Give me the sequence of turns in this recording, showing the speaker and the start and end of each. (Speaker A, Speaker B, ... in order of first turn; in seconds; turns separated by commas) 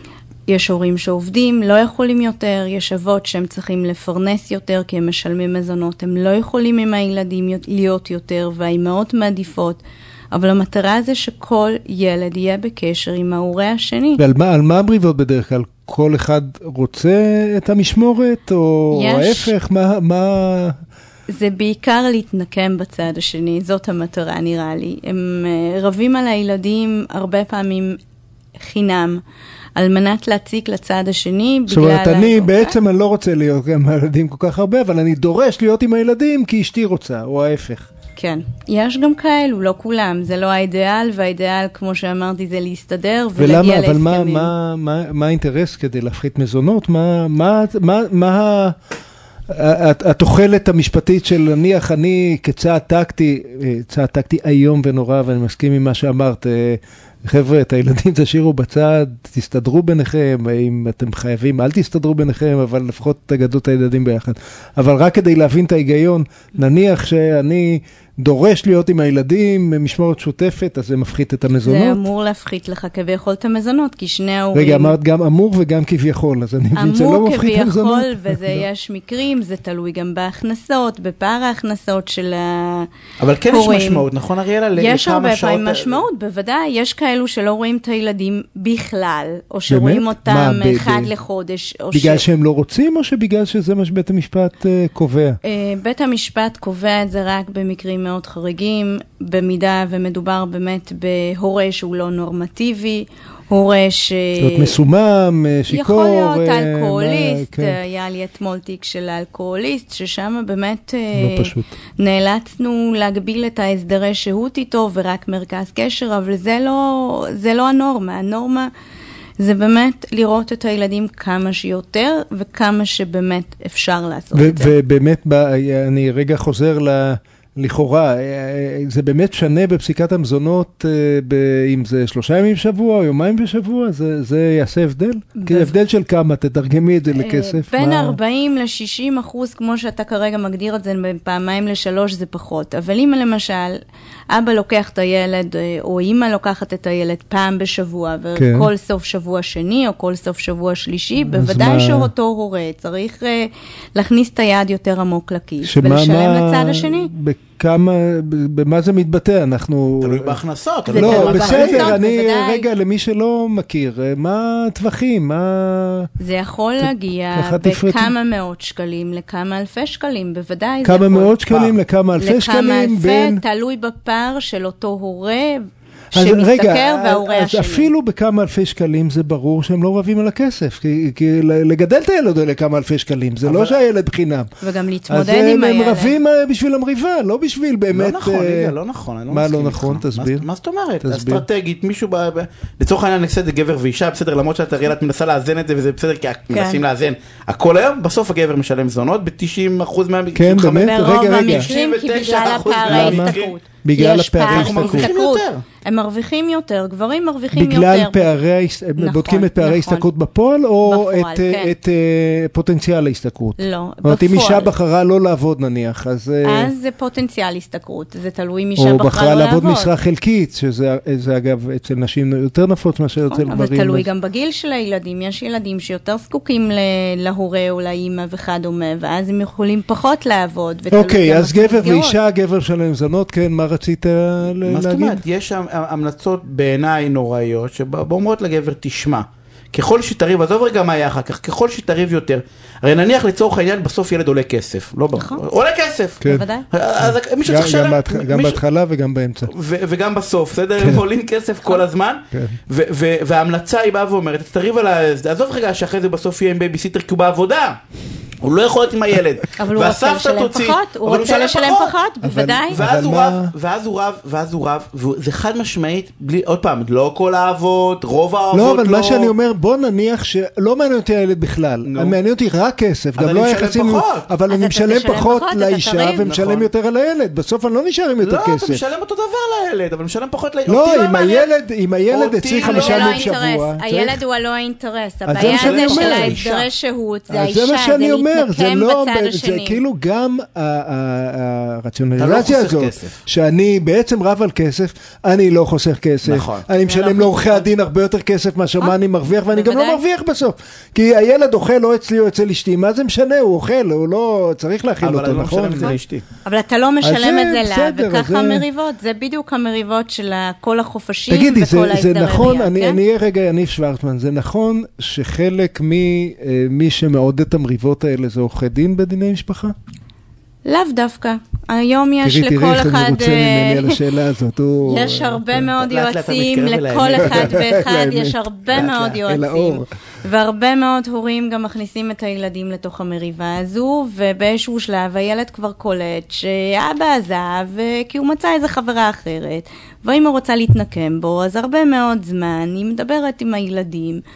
Speaker A: 0.5-14.2, Speaker B: 14.2-20.8, Speaker A: 18.9-19.5, Speaker A: 21.3-28.0, Speaker A: 28.6-29.2, Speaker A: 29.8-32.8, Speaker B: 31.7-37.9, Speaker A: 38.1-44.5, Speaker B: 43.4-48.7, Speaker B: 49.5-72.0, Speaker A: 71.6-74.9, Speaker B: 74.5-78.6, Speaker A: 76.7-82.9, Speaker C: 83.2-86.0, Speaker A: 83.5-84.1, Speaker A: 84.7-92.2, Speaker B: 89.7-91.1, Speaker B: 91.9-95.4, Speaker A: 95.4-104.8, Speaker B: 104.4-107.8, Speaker A: 105.7-118.7, Speaker B: 111.1-111.7, Speaker A: 119.4-124.7, Speaker B: 124.3-138.2, Speaker A: 135.4-135.8, Speaker A: 137.1-157.1, Speaker B: 148.3-148.7, Speaker B: 151.3-152.1, Speaker B: 155.6-166.1, Speaker C: 160.0-162.0, Speaker A: 160.9-162.7, Speaker A: 166.2-171.3, Speaker B: 166.8-168.1, Speaker B: 170.8-173.4, Speaker C: 171.5-171.8, Speaker A: 172.2-175.6, Speaker A: 176.1-177.9, Speaker B: 176.1-184.5, Speaker C: 183.4-183.8, Speaker A: 184.6-186.2, Speaker B: 185.1-188.7, Speaker C: 187.9-203.6, Speaker B: 189.3-190.4, Speaker B: 191.0-191.4, Speaker A: 196.5-196.8, Speaker B: 200.3-201.7, Speaker A: 200.8-208.4, Speaker B: 202.7-205.1, Speaker C: 204.4-205.6, Speaker B: 207.5-216.7, Speaker A: 209.0-210.1, Speaker A: 210.8-211.7, Speaker A: 213.6-214.7, Speaker A: 216.4-219.9, Speaker B: 218.8-224.1, Speaker A: 223.2-232.2, Speaker B: 230.9-235.2, Speaker C: 234.5-248.6, Speaker A: 245.1-245.4, Speaker B: 246.2-246.5, Speaker A: 246.2-246.7, Speaker B: 247.0-249.5, Speaker C: 249.4-257.8, Speaker B: 250.8-251.0, Speaker C: 258.4-262.0, Speaker A: 259.6-262.8, Speaker B: 262.2-263.5, Speaker C: 262.7-269.3, Speaker B: 268.5-278.8, Speaker C: 271.8-272.2, Speaker C: 273.2-274.3, Speaker A: 274.5-276.3, Speaker C: 276.2-276.7, Speaker C: 278.2-281.4, Speaker B: 280.7-284.2, Speaker A: 281.1-281.4, Speaker C: 282.1-283.3, Speaker A: 282.6-289.8, Speaker B: 285.2-286.4, Speaker C: 285.4-286.7, Speaker B: 287.3-306.0, Speaker C: 292.2-293.2, Speaker C: 296.2-296.7, Speaker A: 296.8-297.6, Speaker A: 298.8-300.0, Speaker C: 305.0-306.2, Speaker A: 306.4-313.0, Speaker B: 307.0-308.6, Speaker B: 311.3-319.7, Speaker A: 320.6-324.0, Speaker B: 322.2-325.7, Speaker A: 324.8-344.2, Speaker C: 325.8-327.7, Speaker B: 327.1-328.4, Speaker C: 328.7-329.2, Speaker B: 329.2-329.9